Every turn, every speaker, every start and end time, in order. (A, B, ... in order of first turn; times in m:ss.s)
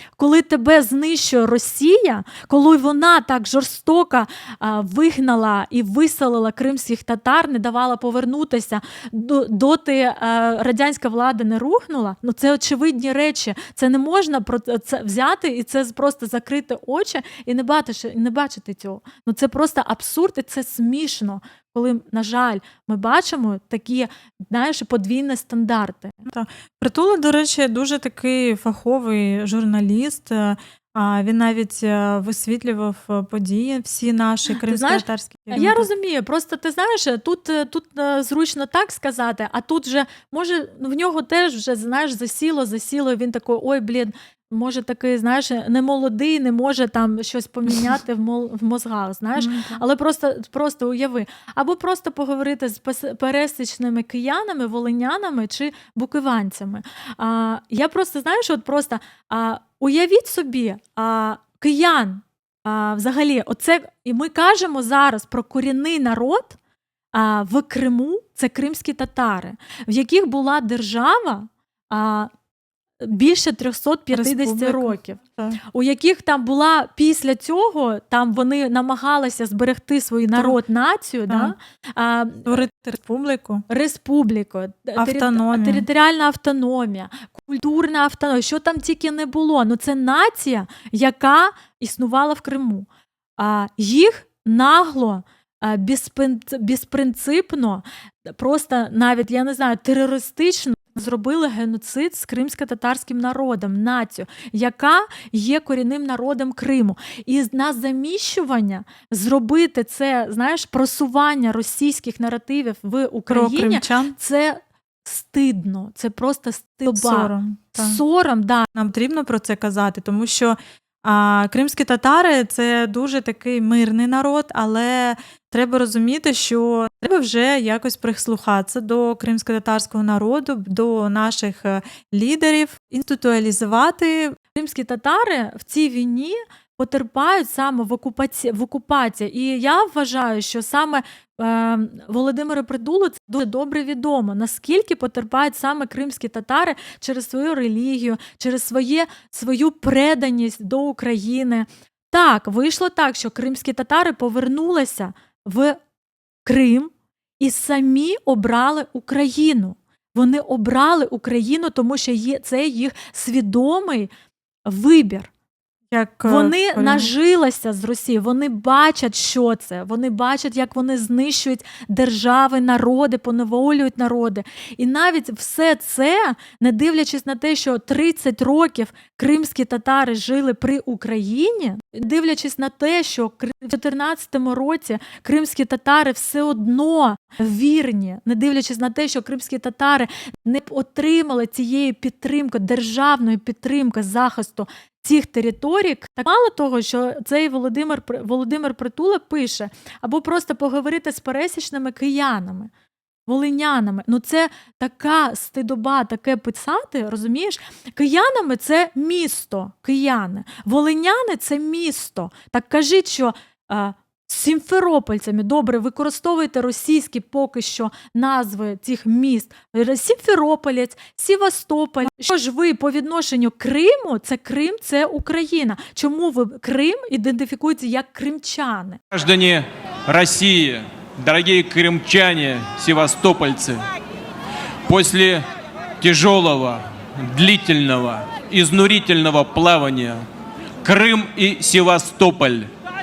0:00.2-0:26.3 A
0:26.3-0:35.9 B
0:34.5-1:06.6 A
0:49.4-0:49.8 B
1:07.1-1:12.3 A
1:13.0-1:15.2 A
1:14.1-1:15.6 B
1:15.7-1:22.6 A
1:21.3-1:21.5 B
1:22.5-1:23.6 B
1:23.7-1:32.9 A
1:25.0-1:25.9 B
1:33.4-1:58.7 A
1:53.3-1:54.2 B
1:56.9-1:58.0 B
1:58.8-2:14.4 B
2:14.5-2:35.8 A
2:36.4-2:44.1 A
2:44.7-2:45.3 A
2:45.9-2:47.1 B
2:46.2-3:22.7 A
3:23.3-3:49.0 A
3:49.1-3:53.9 C
3:54.9-3:55.5 C
3:56.0-4:00.3 C
4:00.8-4:02.7 C